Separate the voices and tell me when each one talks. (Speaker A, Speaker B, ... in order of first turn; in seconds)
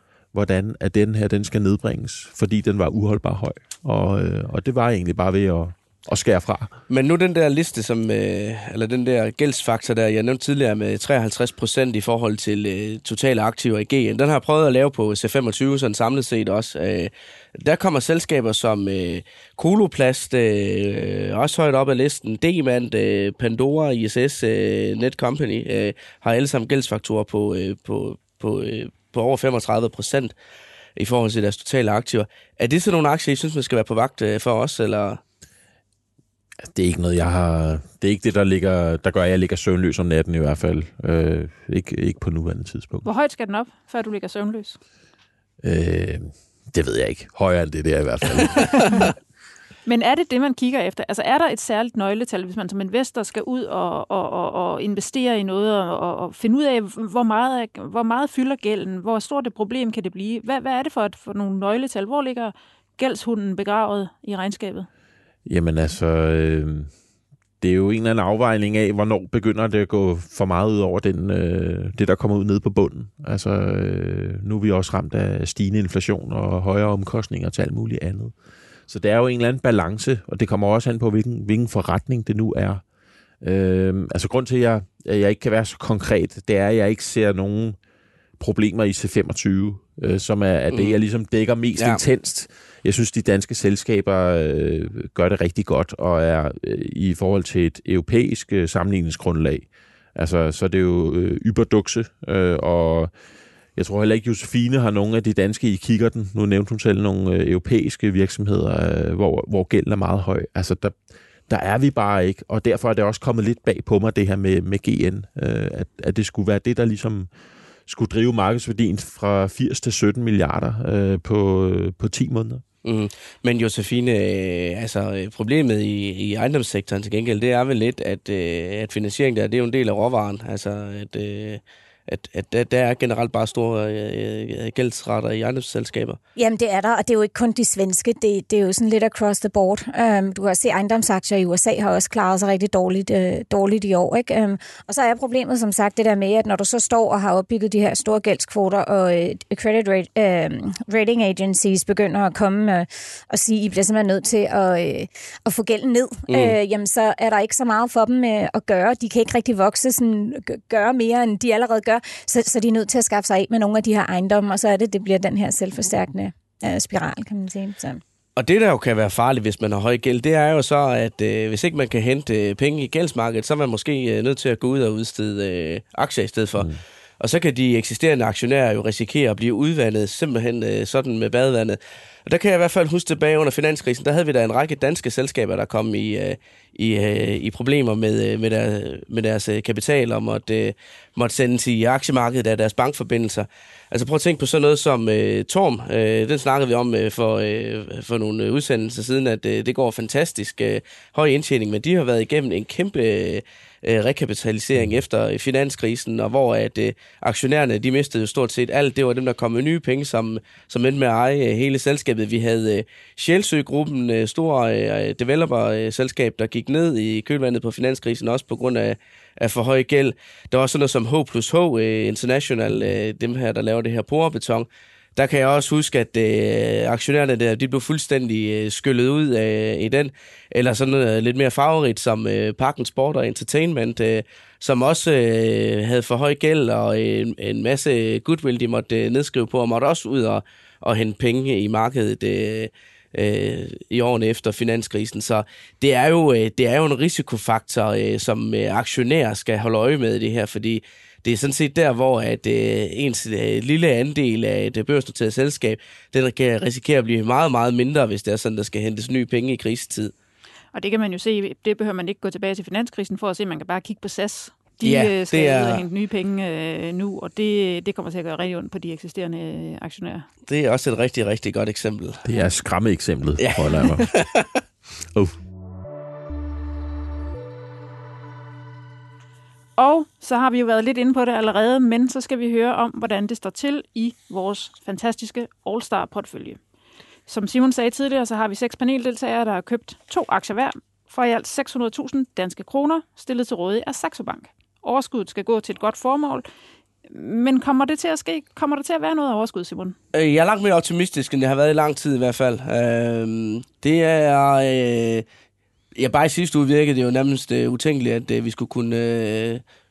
Speaker A: 0.3-6.7, 36.6-43.0, 45.6-49.1, 65.4-66.9, 67.6-78.3, 78.9-82.8, 83.4-87.8, 88.4-103.1, 103.7-111.0, 111.5-117.3, 117.8-122.6, 272.2-274.1, 275.1-275.4
Speaker B: 6.9-30.3, 31.0-35.2, 122.8-136.2, 156.3-156.6, 168.4-260.1, 264.8-265.8, 270.5-272.2, 273.4-274.5, 300.1-305.2, 305.9-309.6
Speaker C: 43.0-44.8, 49.9-64.9, 260.7-270.2, 279.8-286.6, 287.3-296.4, 297.1-299.9
Speaker D: 136.3-168.0